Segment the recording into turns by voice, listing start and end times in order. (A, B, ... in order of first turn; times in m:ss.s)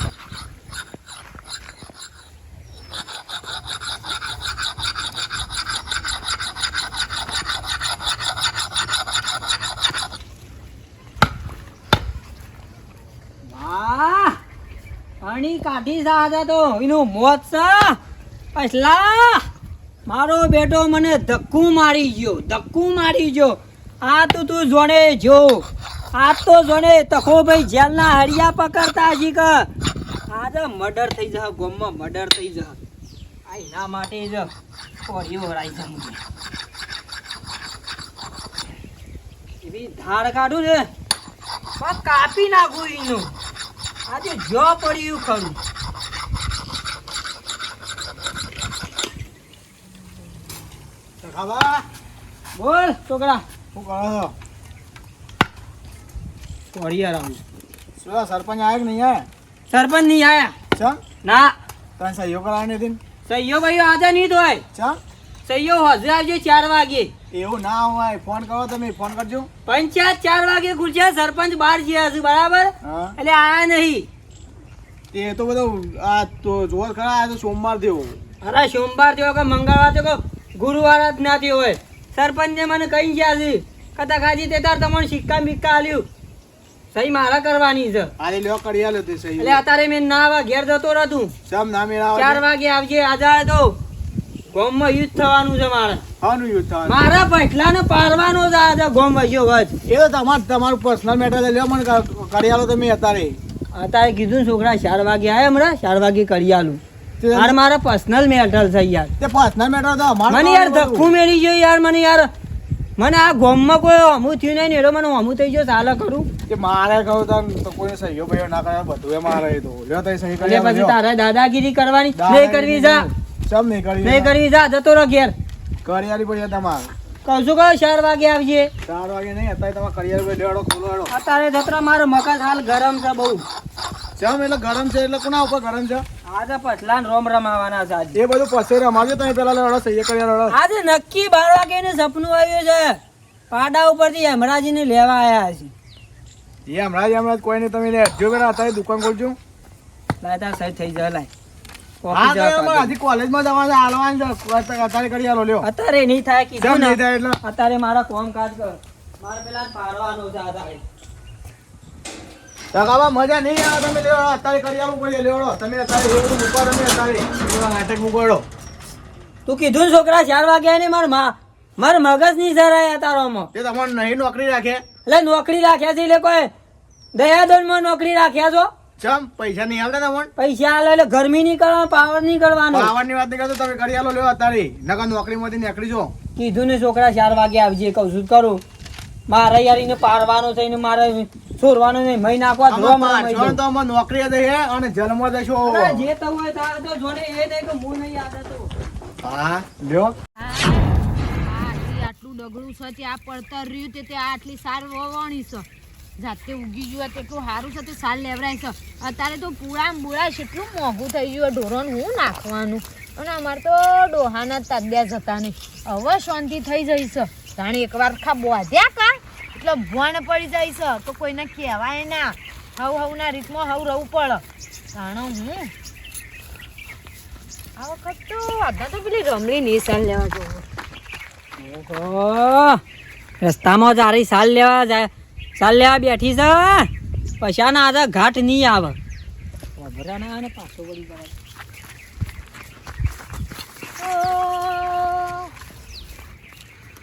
0:13.5-0:14.4 A
0:15.2-0:18.0 A
0:18.5-0:19.4 A
0:20.0-0:29.7 A
0:30.3-0:32.8 A
0:33.5-0:34.5 A
0:35.0-0:36.2 A
0:39.6-0:40.9 A
0:41.8-0:43.3 A
0:44.1-0:45.6 A
0:51.2-0:51.8 B
0:52.5-0:53.4 A
0:53.7-0:54.3 B
0:56.7-0:57.4 A
0:58.0-0:59.3 B
0:59.7-1:00.5 A
1:01.2-1:01.5 A
1:02.0-1:03.0 B
1:03.2-1:04.6 A
1:05.4-1:07.1 A
1:07.3-1:09.5 B
1:09.6-1:14.1 A
1:12.8-1:13.2 B
1:15.1-1:18.2 B
1:18.4-1:26.1 A
1:26.9-1:28.1 A
1:28.2-1:29.6 B
1:29.4-1:31.3 A
1:31.4-1:32.4 B
1:32.1-1:33.8 A
1:34.5-1:36.0 A
1:36.2-1:37.1 B
1:36.8-1:39.7 A
1:39.8-1:43.4 B
1:43.7-1:46.8 A
1:47.2-1:47.6 B
1:47.3-1:49.1 A
1:49.2-1:51.1 B
1:50.3-1:52.3 A
1:53.0-1:56.3 A
1:56.5-2:01.0 B
2:00.4-2:03.1 A
2:02.1-2:04.3 B
2:04.0-2:05.3 A
2:05.8-2:06.9 B
2:07.2-2:08.7 A
2:08.8-2:11.1 B
2:11.1-2:13.4 A
2:14.2-2:16.0 B
2:16.3-2:18.2 A
2:18.1-2:20.6 B
2:20.5-2:23.0 A
2:23.5-2:25.7 A
2:26.7-2:29.4 B
2:30.2-2:31.3 A
2:32.0-2:32.9 A
2:32.1-2:35.7 B
2:35.6-2:40.8 A
2:36.6-2:37.4 B
2:42.7-2:48.4 B
2:49.4-2:53.5 A
2:53.5-2:54.8 B
2:55.0-2:56.5 A
2:57.1-2:58.7 A
2:59.0-3:00.3 B
3:00.4-3:02.9 A
3:02.7-3:06.1 B
3:06.3-3:08.6 A
3:09.3-3:13.6 A
3:12.7-3:16.0 B
3:15.6-3:18.7 A
3:19.2-3:20.1 B
3:20.4-3:20.9 C
3:21.4-3:25.6 C
3:26.2-3:44.4 C
3:44.9-3:45.7 C
3:47.8-3:50.6 C
3:51.6-3:52.8 A
3:53.4-3:59.0 A
3:59.8-4:01.3 A
4:04.0-4:05.5 C